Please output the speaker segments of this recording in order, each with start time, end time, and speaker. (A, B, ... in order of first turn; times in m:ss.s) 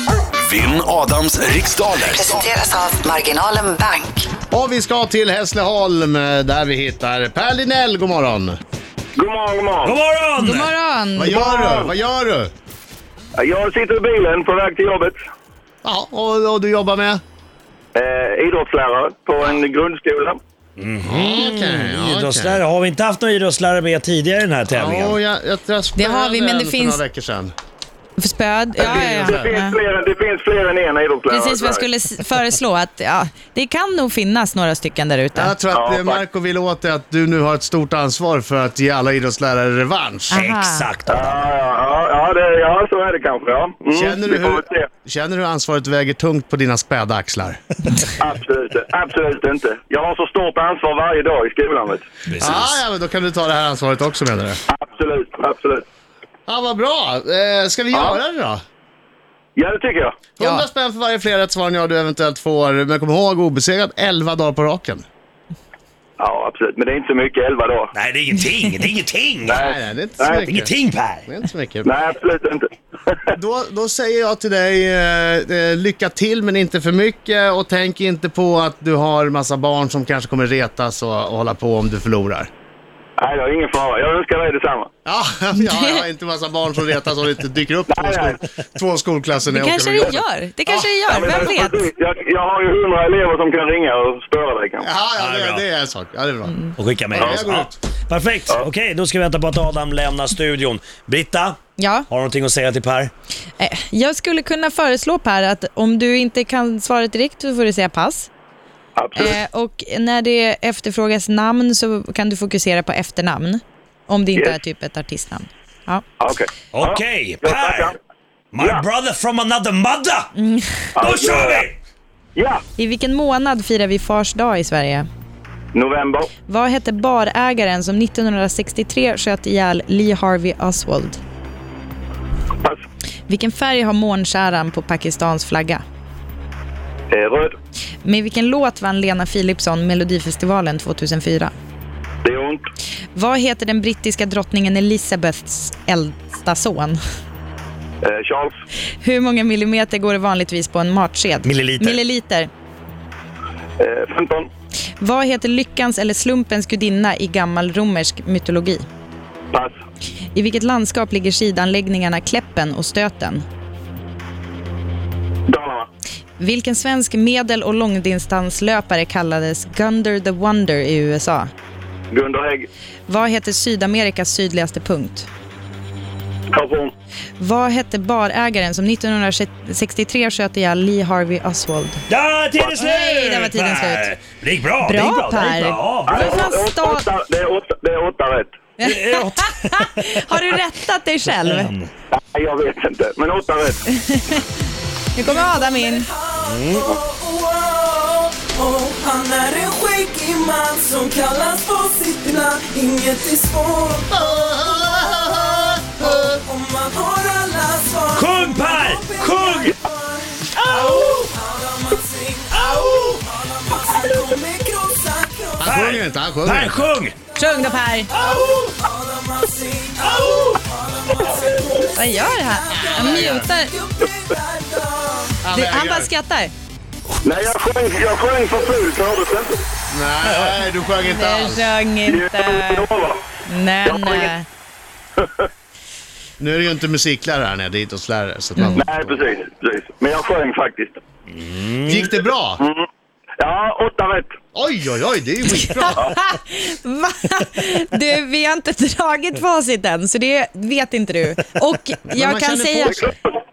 0:00.4-0:02.5 A
0:02.1-0:04.3 B
0:04.5-0:08.6 C
0:09.2-0:10.0 D
0:09.8-0:10.7 E
0:10.4-0:11.9 F
0:11.2-0:12.5 C
0:13.4-0:15.2 D
0:15.8-0:17.2 C
0:18.0-0:20.4 D
0:20.8-0:25.2 E
0:21.0-0:22.6 C
0:24.7-0:27.5 C
0:26.0-0:27.0 F
0:28.2-0:29.8 F
0:28.8-0:29.5 C
0:28.8-0:31.8 D
0:31.3-0:35.5 F
0:35.4-0:40.3 C
0:35.7-0:36.2 D
0:40.3-0:40.9 F
0:40.3-0:41.4 E
0:41.1-0:44.9 D
0:43.9-0:47.6 C
0:48.2-0:52.1 D
0:52.3-0:52.8 E
0:52.4-0:54.6 C
0:54.7-0:55.9 D
0:56.5-0:58.6 C
0:57.9-0:58.2 D
0:59.6-1:00.2 D
1:00.4-1:05.0 C
1:00.4-1:00.7 F
1:06.2-1:07.9 D
1:07.9-1:09.6 E
1:09.5-1:10.4 D
1:09.5-1:10.8 C
1:10.4-1:11.2 E
1:11.3-1:11.9 C
1:11.8-1:13.3 D
1:13.3-1:22.5 C
1:23.2-1:24.9 D
1:25.0-1:31.3 C
1:25.6-1:26.0 F
1:27.9-1:28.4 D
1:29.5-1:31.8 F
1:31.1-1:34.9 D
1:34.8-1:37.8 C
1:35.2-1:35.7 E
1:36.8-1:43.1 E
1:37.2-1:37.5 D
1:41.8-1:42.1 F
1:43.6-1:48.3 F
1:49.0-1:49.4 D
1:49.2-1:56.0 F
1:56.2-1:58.0 D
1:56.7-1:57.9 E
1:58.5-2:00.3 E
1:58.6-1:58.8 D
2:00.4-2:00.9 F
2:01.0-2:01.7 D
2:01.0-2:01.8 E
2:02.4-2:02.6 D
2:02.8-2:05.1 F
2:05.7-2:06.3 D
2:06.5-2:11.2 F
2:13.3-2:15.8 F
2:17.1-2:17.6 D
2:18.0-2:21.5 F
2:22.2-2:22.6 D
2:23.1-2:27.0 F
2:28.0-2:28.6 D
2:29.0-2:32.5 F
2:31.4-2:32.0 E
2:33.8-2:34.5 D
2:35.0-2:38.9 F
2:40.4-2:43.4 F
2:45.5-2:45.9 D
2:46.4-2:51.5 F
2:52.1-2:52.7 D
2:53.1-2:55.3 F
2:56.5-2:56.9 D
2:57.4-3:02.0 F
3:02.1-3:06.2 E
3:02.8-3:04.1 F
3:04.8-3:07.1 F
3:06.1-3:08.6 D
3:08.8-3:11.7 F
3:08.8-3:10.2 E
3:11.3-3:11.9 E
3:12.1-3:13.8 D
3:13.9-3:14.4 F
3:15.2-3:16.1 F
3:15.2-3:35.7 G
3:16.4-3:16.9 E
3:24.1-3:26.2 C
3:28.1-3:29.7 E
3:30.6-3:31.0 E
3:32.7-3:33.1 E
3:35.6-3:37.0 C
3:35.7-3:37.2 E
3:37.4-3:38.1 F
3:38.1-3:45.4 G
3:40.2-3:40.6 E
3:41.9-3:43.7 F
3:42.9-3:43.4 C
3:45.4-3:46.1 C
3:45.5-3:46.5 F
3:47.2-3:49.6 D
3:49.9-3:51.8 C
3:51.0-3:52.9 F
3:52.0-3:53.2 D
3:53.5-3:54.5 F
3:53.9-3:54.3 D
3:55.2-3:55.5 D
3:56.4-3:59.2 C
3:58.8-4:01.0 D
4:01.4-4:02.0 E
4:01.8-4:02.6 C
4:02.6-4:02.9 D
4:03.4-4:04.3 D
4:04.5-4:06.0 C
4:05.6-4:13.1 F
4:12.1-4:13.1 C
4:12.8-4:13.3 D